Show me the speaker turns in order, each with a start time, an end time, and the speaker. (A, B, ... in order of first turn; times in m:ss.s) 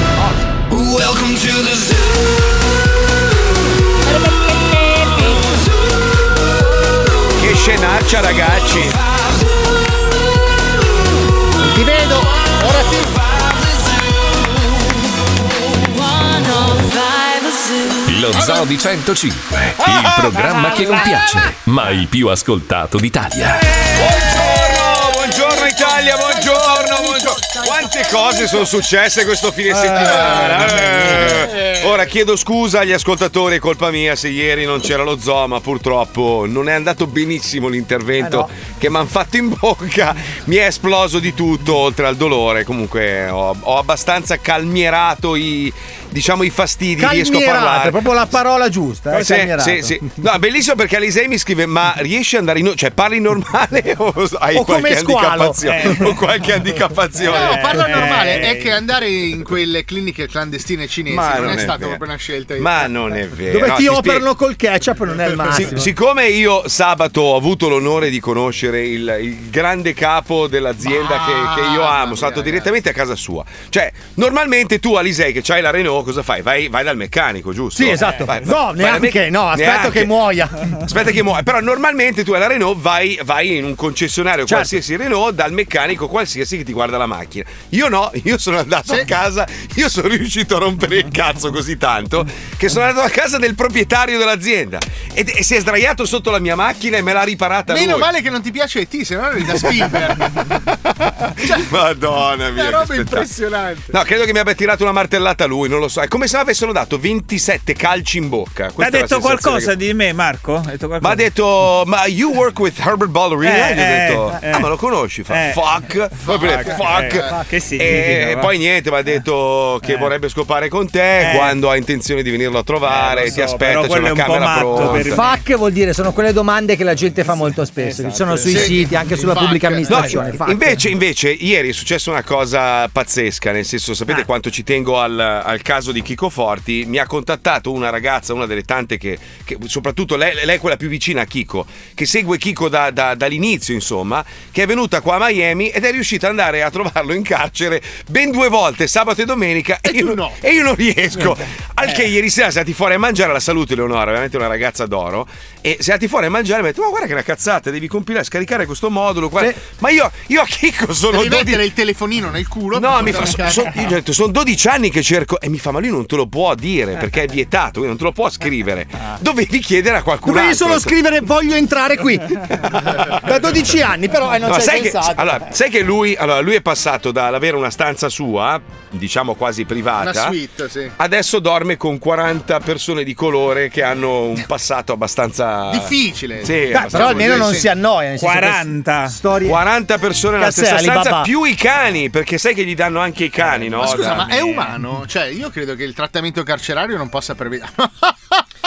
0:07.4-0:09.0 A
0:11.6-0:13.2 B
0:18.0-0:23.7 C
0:19.8-0:21.1 A
0:23.9-0:48.1 A
0:26.5-0:28.6 B
0:29.8-0:30.2 B
0:30.8-0:31.2 B
0:38.2-0:38.5 B
0:47.0-0:50.0 B
0:49.1-0:57.7 A
0:54.5-0:55.9 B
0:55.7-0:56.2 D
0:57.3-0:58.7 D
0:57.3-1:02.9 E
1:01.1-1:02.0 A
1:02.6-1:04.3 A
1:03.5-1:05.9 B
1:05.5-1:20.2 A
1:10.8-1:12.7 E
1:17.7-1:20.6 B
1:20.8-1:38.1 A
1:24.5-1:24.7 B
1:37.7-1:40.3 E
1:41.4-1:43.3 A
1:42.6-1:43.9 E
1:43.9-1:49.7 A
1:48.8-1:51.3 D
1:51.0-2:05.2 A
1:53.4-1:54.7 D
1:55.3-1:55.6 D
1:56.2-1:57.3 E
1:56.3-1:58.5 D
1:59.8-2:00.1 D
2:01.2-2:01.6 D
2:02.8-2:05.4 D
2:04.8-2:10.8 B
2:07.8-2:08.8 D
2:08.4-2:10.2 E
2:09.9-2:41.6 A
2:29.8-2:30.4 E
2:41.1-2:43.8 E
2:42.8-2:51.0 A
2:50.2-2:52.4 B
2:53.2-2:55.5 B
2:54.4-3:00.4 A
3:00.0-3:00.9 E
3:01.0-3:07.6 A
3:05.7-3:07.7 E
3:06.7-3:09.6 B
3:08.2-3:09.2 D
3:09.4-3:14.5 A
3:10.4-3:11.3 B
3:13.6-3:18.4 E